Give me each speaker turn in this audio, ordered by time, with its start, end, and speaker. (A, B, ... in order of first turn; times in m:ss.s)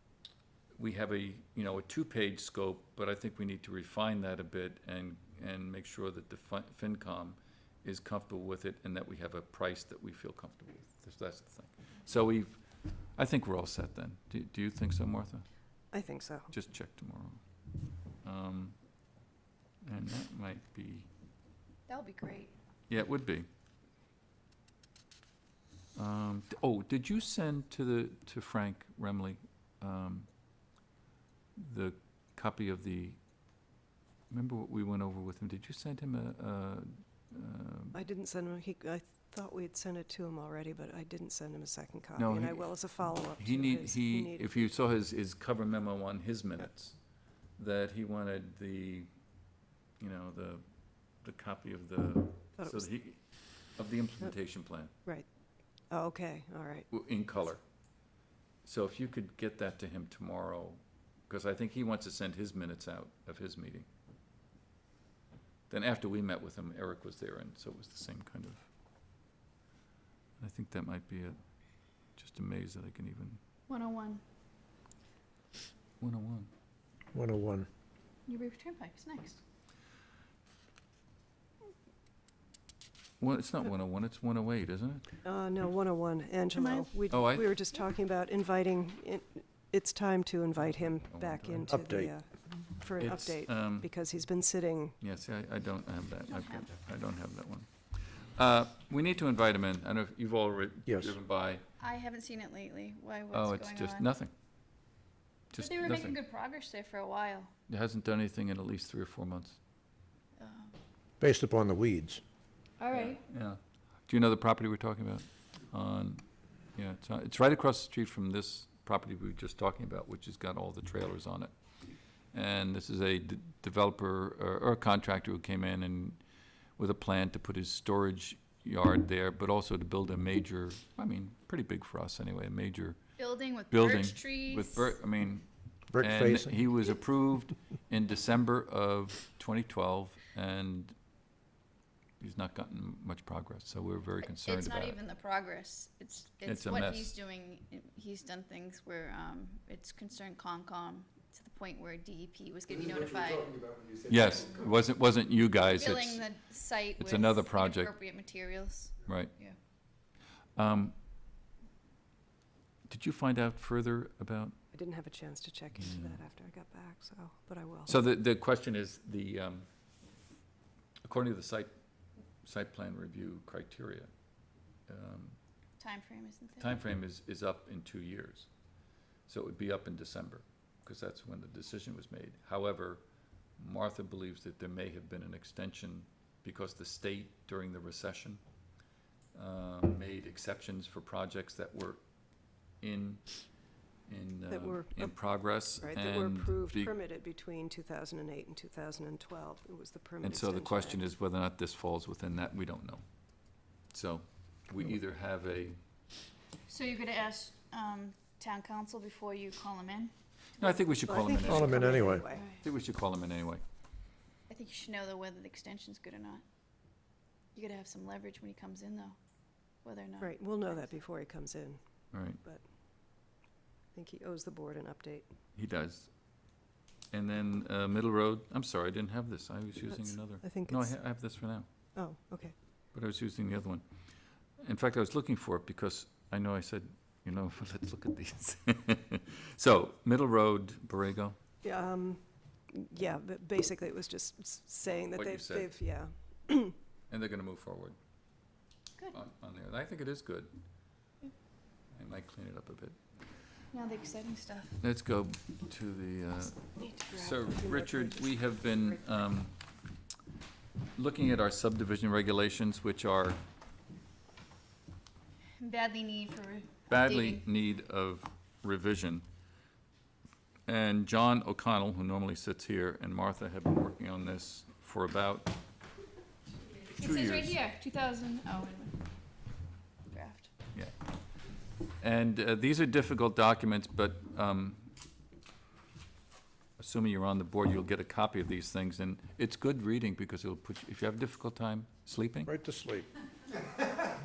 0:00.8-0:15.4 A
0:15.9-0:16.5 B
0:16.5-0:17.4 A
0:18.2-0:18.7 A
0:19.8-0:21.1 A
0:21.9-0:22.5 C
0:22.9-0:23.5 A
0:26.0-0:30.3 A
0:31.6-0:33.2 A
0:34.3-0:38.0 A
0:37.9-0:44.7 B
0:42.2-0:49.1 A
0:50.0-0:54.9 A
0:52.6-0:52.8 B
0:55.9-0:56.9 B
0:56.9-0:57.6 A
0:58.6-1:03.9 A
1:05.7-1:08.7 A
1:10.4-1:11.4 A
1:12.2-1:13.4 A
1:13.7-1:14.2 C
1:16.0-1:16.5 A
1:17.1-1:17.7 D
1:18.3-1:19.4 C
1:23.2-1:25.0 A
1:25.2-1:35.0 B
1:26.5-1:26.9 C
1:27.1-1:27.5 A
1:31.0-1:31.7 A
1:31.7-1:32.1 D
1:33.0-1:33.9 A
1:35.0-1:41.6 A
1:36.3-1:36.7 C
1:40.9-1:41.1 D
1:41.8-1:44.1 C
1:43.3-1:44.3 A
1:45.5-1:46.2 A
1:45.5-1:47.5 C
1:47.7-1:49.6 A
1:50.4-1:50.7 C
1:51.2-1:52.2 D
1:52.8-1:53.2 C
1:52.9-2:01.5 A
2:02.3-2:06.2 A
2:06.8-2:13.0 A
2:13.2-2:15.0 C
2:13.7-2:21.0 A
2:15.9-2:16.6 D
2:22.2-2:25.0 A
2:24.2-2:33.7 C
2:26.4-2:27.1 A
2:34.1-2:36.2 A
2:35.7-2:39.6 C
2:37.0-2:37.9 A
2:39.1-2:39.3 A
2:40.6-2:40.9 A
2:42.9-2:44.6 A
2:44.7-2:48.0 B
2:45.8-2:46.1 A
2:47.8-2:49.6 A
2:51.0-2:51.7 A
2:52.4-2:54.1 A
2:54.9-2:55.4 A
2:55.8-2:56.8 C
2:56.6-2:58.5 A
2:59.3-3:03.0 A
3:03.6-3:08.4 A
3:09.3-3:12.0 A
3:12.8-3:13.3 A
3:14.1-3:16.9 A
3:14.5-3:15.3 B
3:15.8-3:21.0 B
3:20.2-3:23.0 A
3:23.9-3:25.8 A
3:26.7-3:30.1 C
3:30.6-3:33.6 A
3:31.0-3:32.4 B
3:31.4-3:32.2 D
3:32.3-3:32.6 C
3:34.5-3:36.4 C
3:37.5-3:39.2 C
3:39.8-3:40.9 C
3:40.2-3:41.8 B
3:42.1-3:42.4 A
3:43.9-3:45.2 B
3:45.5-3:46.1 A
3:47.1-3:51.7 A
3:49.9-3:51.3 B
3:51.9-3:52.5 B
3:52.9-3:53.8 A
3:54.6-4:01.4 A
4:01.6-4:06.7 B
4:05.1-4:05.7 A
4:07.1-4:08.0 A
4:09.1-4:10.5 A
4:11.9-4:13.0 A
4:13.7-4:14.8 C
4:14.8-4:19.6 A
4:16.8-4:17.2 C
4:17.1-4:19.3 B
4:21.0-4:23.4 A
4:25.6-4:27.4 C
4:26.9-4:29.2 A
4:30.7-4:35.5 A
4:37.0-4:37.6 A
4:37.0-4:39.0 C
4:40.1-4:40.5 C
4:42.0-4:44.9 A
4:46.8-4:52.5 A
4:52.4-4:53.1 D